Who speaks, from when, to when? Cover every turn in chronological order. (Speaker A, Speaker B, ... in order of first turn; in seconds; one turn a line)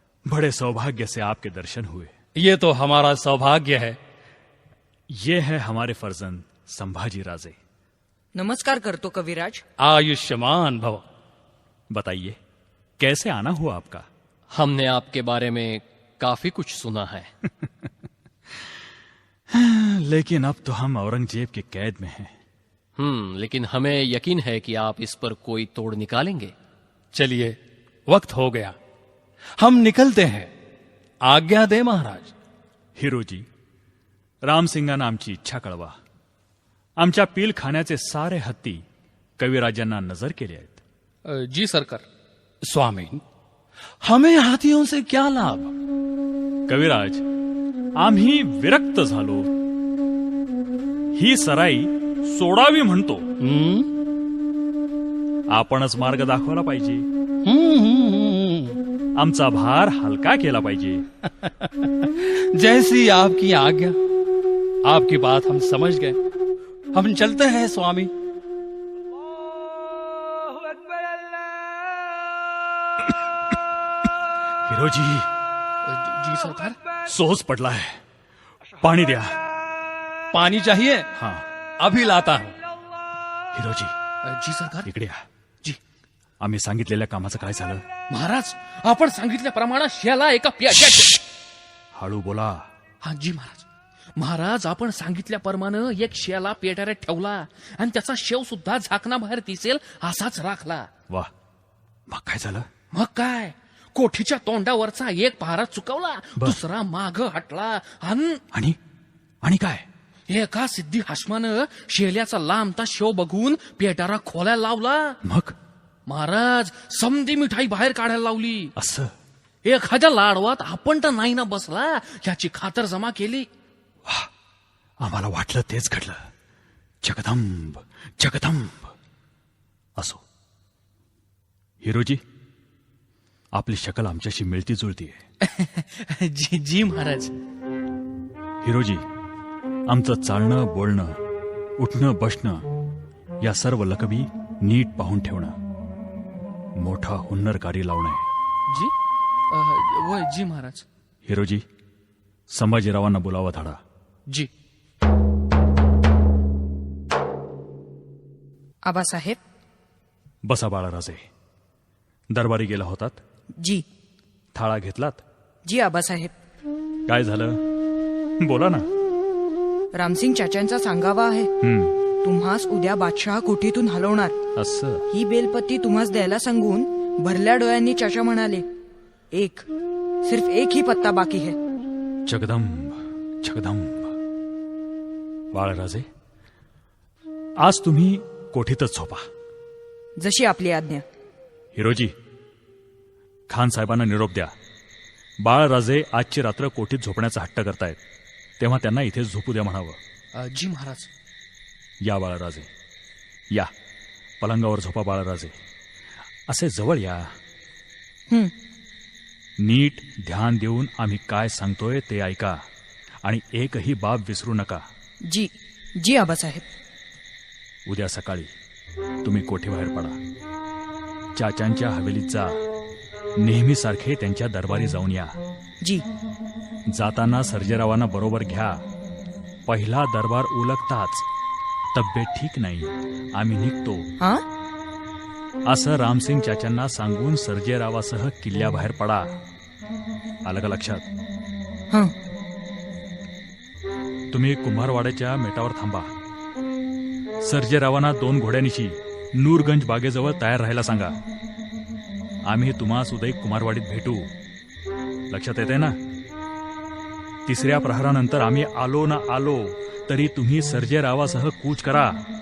Speaker A: 0.3-2.1
Speaker B: 2.4-4.0
Speaker A: 5.1-7.5
Speaker C: 8.3-9.6
Speaker B: 9.8-11.1
Speaker A: 11.9-12.4
Speaker A: 13.0-14.1
Speaker D: 14.5-17.3
Speaker A: 19.5-22.3
Speaker D: 23.0-26.5
Speaker B: 27.1-27.6
Speaker B: 28.1-28.8
Speaker B: 29.6-30.5
Speaker B: 31.2-32.3
Speaker A: 33.0-33.5
Speaker A: 34.4-36.0
Speaker A: 37.0-38.9
Speaker A: 39.4-40.8
Speaker E: 41.3-42.0
Speaker B: 42.6-43.2
Speaker B: 44.0-45.7
Speaker A: 46.7-47.2
Speaker A: 48.0-49.5
Speaker A: 51.1-53.3
Speaker B: 53.4-53.9
Speaker A: 55.5-57.1
Speaker B: 57.5-58.8
Speaker A: 59.2-61.0
Speaker B: 61.4-64.0
Speaker B: 64.8-66.2
Speaker B: 66.9-68.1
Speaker A: 74.7-75.3
Speaker E: 75.9-76.8
Speaker A: 77.1-78.0
Speaker A: 78.8-79.4
Speaker B: 80.3-81.1
Speaker A: 81.2-81.5
Speaker B: 81.8-82.6
Speaker A: 83.5-83.9
Speaker E: 84.2-84.9
Speaker A: 84.9-85.2
Speaker A: 86.4-87.8
Speaker E: 88.1-91.2
Speaker A: 91.9-92.7
Speaker E: 93.0-93.7
Speaker E: 94.2-100.9
Speaker A: 102.1-102.7
Speaker E: 102.9-108.4
Speaker A: 108.5-108.8
Speaker A: 109.4-109.9
Speaker E: 110.3-115.2
Speaker A: 115.2-115.6
Speaker E: 116.1-118.7
Speaker A: 118.8-119.1
Speaker E: 119.7-123.5
Speaker A: 125.0-126.3
Speaker A: 127.0-128.9
Speaker A: 130.0-130.2
Speaker A: 131.8-132.2
Speaker A: 133.5-135.2
Speaker E: 135.4-137.4
Speaker A: 138.6-139.0
Speaker A: 139.9-141.2
Speaker A: 141.8-142.7
Speaker A: 143.4-145.6
Speaker A: 146.8-148.3
Speaker E: 149.5-150.8
Speaker A: 151.3-151.7
Speaker A: 152.5-153.8
Speaker C: 158.9-159.4
Speaker A: 160.4-161.3
Speaker A: 162.3-163.2
Speaker C: 163.6-163.8
Speaker A: 164.5-165.2
Speaker C: 165.7-166.3
Speaker A: 167.1-167.6
Speaker A: 168.4-168.9
Speaker C: 169.9-171.5
Speaker A: 171.6-171.9
Speaker C: 172.2-174.3
Speaker A: 174.6-175.1
Speaker C: 175.1-178.7
Speaker C: 179.3-179.7
Speaker C: 180.2-181.6
Speaker A: 182.3-184.2
Speaker A: 185.5-186.1
Speaker A: 187.6-189.3
Speaker C: 190.2-191.1
Speaker A: 191.8-192.1
Speaker A: 193.5-194.5
Speaker A: 195.4-198.0
Speaker A: 198.6-200.0
Speaker E: 200.3-201.1
Speaker A: 202.0-202.7
Speaker A: 204.4-205.6
Speaker A: 206.5-207.3
Speaker A: 209.6-212.7
Speaker A: 213.2-214.8
Speaker C: 215.3-216.7
Speaker A: 217.9-218.5
Speaker A: 219.2-220.2
Speaker A: 221.4-222.6
Speaker A: 223.4-225.4
Speaker A: 226.9-228.8
Speaker A: 229.7-231.2
Speaker A: 231.9-234.1
Speaker A: 235.7-239.3
Speaker A: 240.4-241.1
Speaker A: 244.3-246.1
Speaker A: 247.4-251.2
Speaker A: 252.4-254.3
Speaker A: 255.3-256.0
Speaker A: 257.5-262.2